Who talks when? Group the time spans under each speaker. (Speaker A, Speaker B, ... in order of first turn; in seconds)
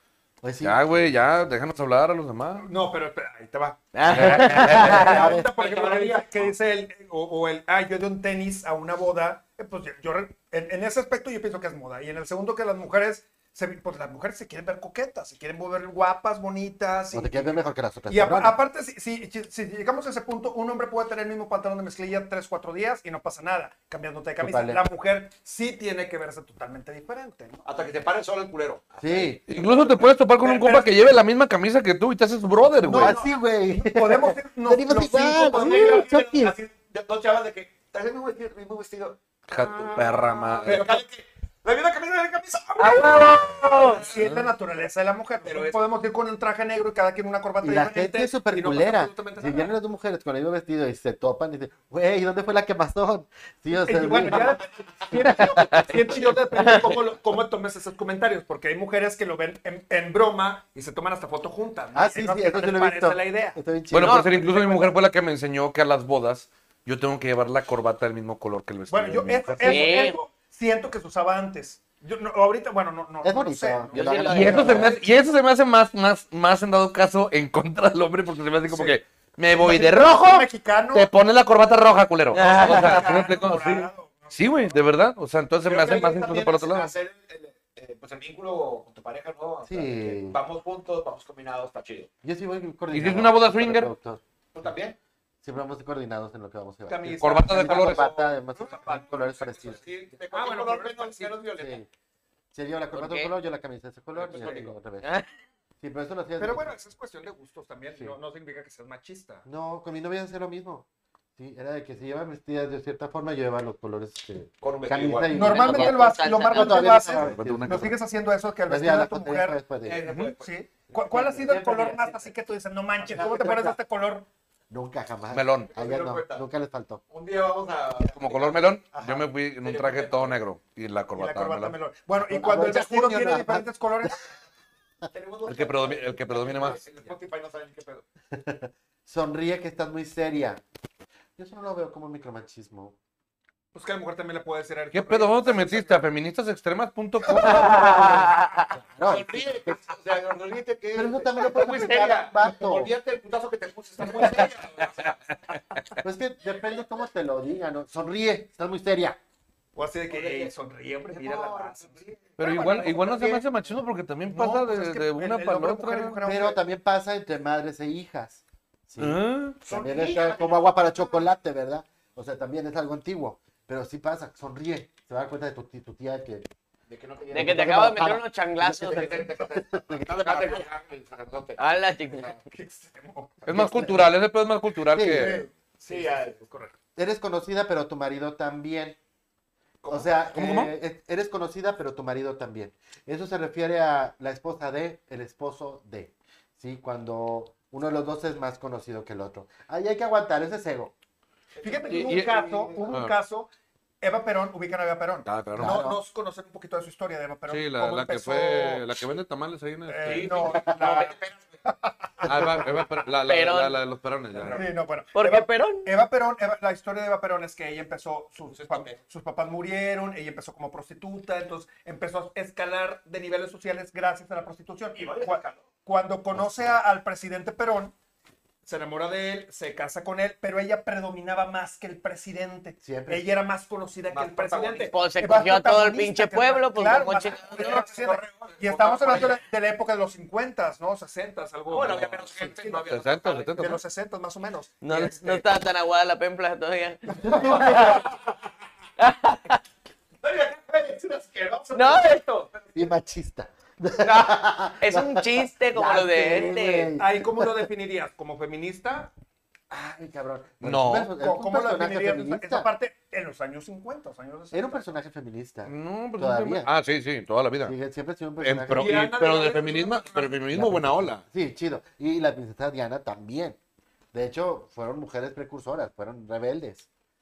Speaker A: 0.4-0.8, 4.3-5.5, 17.1-18.6, 24.4-24.8, 29.0-29.4, 32.9-36.5, 47.6-56.2, 61.9-64.3, 73.2-75.0, 89.6-90.4, 92.2-94.2, 95.4-99.8, 101.6-101.9, 102.5-105.1, 105.8-106.7, 109.4-118.0, 118.7-120.0, 121.0-122.1, 123.0-123.7, 124.7-127.0, 132.2-134.1, 138.3-140.6, 141.4-142.9, 147.3-149.8, 150.9-152.9, 156.0-159.2, 166.2-176.5, 177.3-180.4, 183.5-184.1, 184.9-185.5, 186.9-189.0, 189.9-200.9, 205.6-206.0, 226.3-226.8, 232.8-233.3, 247.2-248.0, 252.7-257.7, 259.7-262.7, 264.5-266.7, 267.6-269.1, 270.5-273.6, 274.1-276.9
Speaker B: 0.6-2.7, 4.0-5.1, 29.5-33.2, 39.5-40.9, 63.9-69.9, 74.3-86.9, 92.9-93.9, 97.2-98.0, 117.2-117.9, 125.3-125.7, 128.0-131.8, 135.5-136.8, 144.9-148.3, 162.4-166.2, 169.0-169.6, 183.4-185.4, 190.3-190.7, 201.9-202.3, 202.9-203.2, 205.2-205.8, 207.5-210.5, 212.2-214.6, 242.8-243.8, 260.6-261.1, 265.6-267.8, 268.4-271.2
Speaker C: 2.6-3.8, 4.4-27.6, 30.4-31.1, 33.7-36.0, 43.9-49.7, 53.9-64.9, 68.9-75.0, 78.7-79.0, 79.5-81.1, 82.4-84.7, 96.9-98.2, 98.7-99.0, 100.3-101.4, 104.4-104.6, 106.4-109.4, 115.3-124.2, 128.9-129.3, 131.1-134.2, 143.7-146.0, 159.8-163.4, 164.3-166.6, 182.4-183.9, 185.1-186.7, 201.6-208.8, 209.9-212.7, 214.3-227.9, 228.6-242.8, 243.5-245.4, 247.1-248.1, 256.4-259.1, 261.1-264.9, 268.9-270.3
Speaker D: 3.9-5.2, 42.8-44.1, 69.6-70.2, 73.9-75.0, 82.3-83.1, 102.9-103.3, 115.3-117.2, 148.1-148.6, 177.3-179.2, 181.6-182.3, 213.2-213.8, 215.1-215.9, 234.9-237.9, 244.8-248.0, 249.0-249.6, 251.7-252.2, 254.0-256.9
Speaker E: 5.0-6.5, 27.6-29.9, 32.9-33.3, 35.3-39.2, 39.9-44.3, 45.4-45.8, 85.6-92.1, 94.5-95.0, 97.7-101.8, 104.2-104.7, 114.6-115.4, 119.8-120.5, 123.2-123.5, 125.7-126.4, 127.1-128.7, 129.6-130.4, 135.1-138.1, 149.0-155.2, 160.1-160.5, 161.1-163.4, 169.6-171.2, 176.9-177.9, 178.8-181.6, 185.9-186.4, 201.5-202.9, 210.0-211.6, 218.5-219.0, 224.9-225.7, 234.1-234.9, 237.5-239.4, 241.7-243.6, 247.6-247.9, 250.2-252.9, 268.8-270.1